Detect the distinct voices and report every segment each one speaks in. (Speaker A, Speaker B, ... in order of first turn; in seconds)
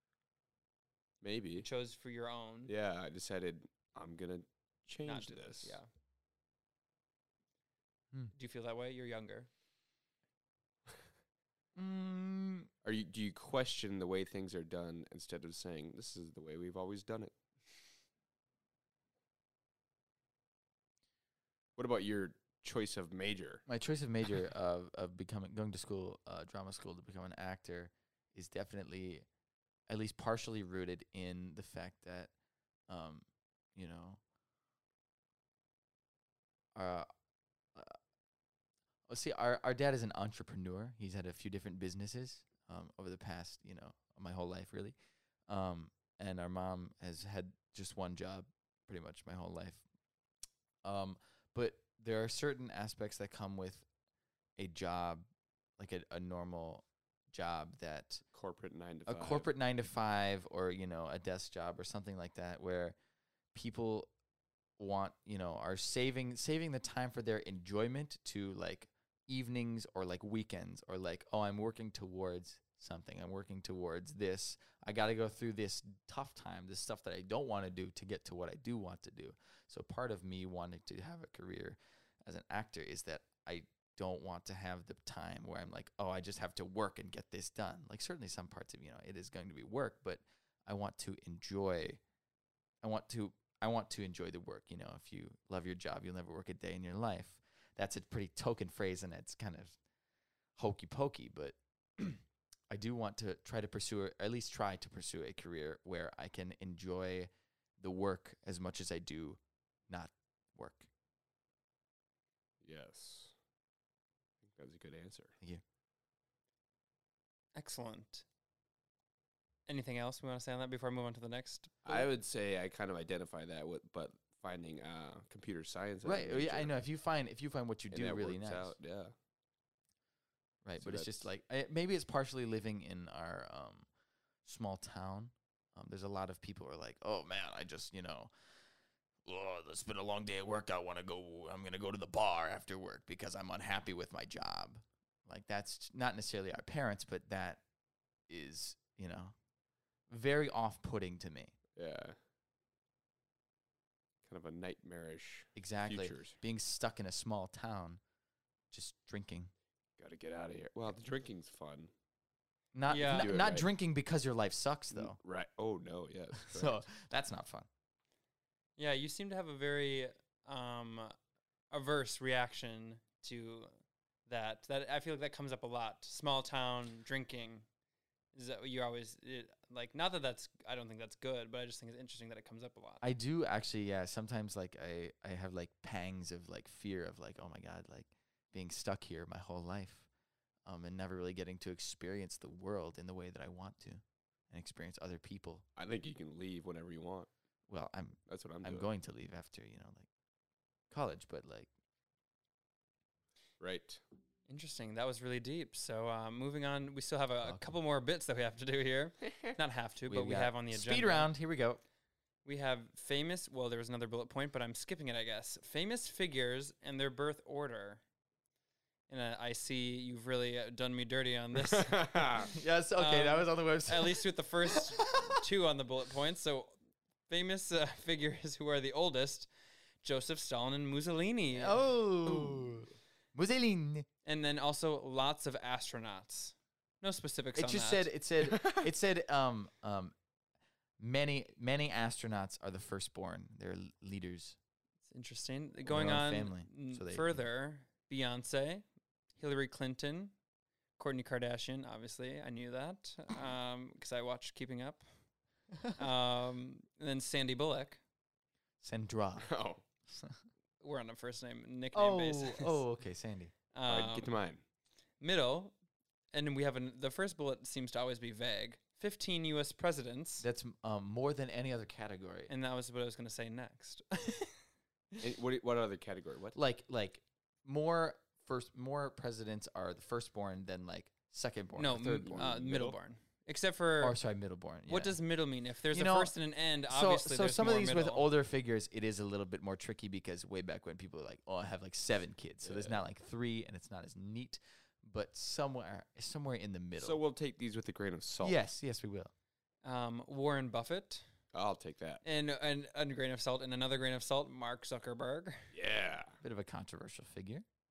Speaker A: 1.2-1.7, 2.7-5.8, 12.8-17.3, 21.8-23.6, 58.3-59.5, 112.6-113.3, 114.4-115.3, 121.9-126.8, 127.9-129.1, 130.8-131.2, 151.8-152.2, 154.2-156.4, 160.0-161.9, 163.2-163.7, 164.9-166.8, 195.8-197.3, 198.3-198.9, 203.6-204.0, 221.6-222.5, 238.5-238.8, 259.4-259.8, 263.9-264.6, 275.2-276.6, 282.2-283.0, 292.6-293.0, 297.0-298.6, 301.5-302.2, 305.7-306.4
Speaker B: 1.6-2.7, 5.0-5.9, 8.3-9.5, 117.6-118.2, 119.7-121.7, 162.9-163.3, 168.8-171.2, 171.7-173.7, 174.3-177.7, 178.3-183.0, 204.5-211.3, 212.4-218.0, 219.1-226.7, 227.3-229.5, 230.0-231.8, 234.2-238.1, 245.1-248.8, 249.4-250.3, 251.0-255.1, 255.9-258.0, 260.8-262.8, 263.7-264.3, 265.2-265.7, 266.3-270.5, 272.5-274.5, 281.8-284.2, 284.9-288.3, 299.8-301.3, 302.2-305.7
Speaker C: 11.8-12.7, 23.7-29.3, 29.9-32.3, 32.9-34.2, 36.8-37.1, 39.1-45.0, 45.5-49.8, 50.8-53.9, 54.6-55.3, 55.8-58.2, 59.1-63.0, 63.5-64.1, 64.8-92.0, 92.8-99.8, 100.6-110.9, 126.0-128.8, 130.6-133.9, 134.4-138.3, 139.2-147.6, 148.3-149.3, 150.1-151.6, 155.6-158.0, 158.7-159.5, 162.7-165.2, 166.4-167.7, 183.0-190.1, 190.7-195.7, 197.7-200.1, 200.9-201.7, 207.4-207.7, 210.1-211.8, 222.5-225.4, 231.5-234.1, 237.6-240.1, 241.0-244.6, 245.9-247.4, 258.8-259.5, 260.1-260.4, 261.9-263.5, 270.4-272.5, 276.6-282.5, 284.0-285.2, 285.9-286.4, 286.9-297.2, 298.4-299.3, 306.4-307.6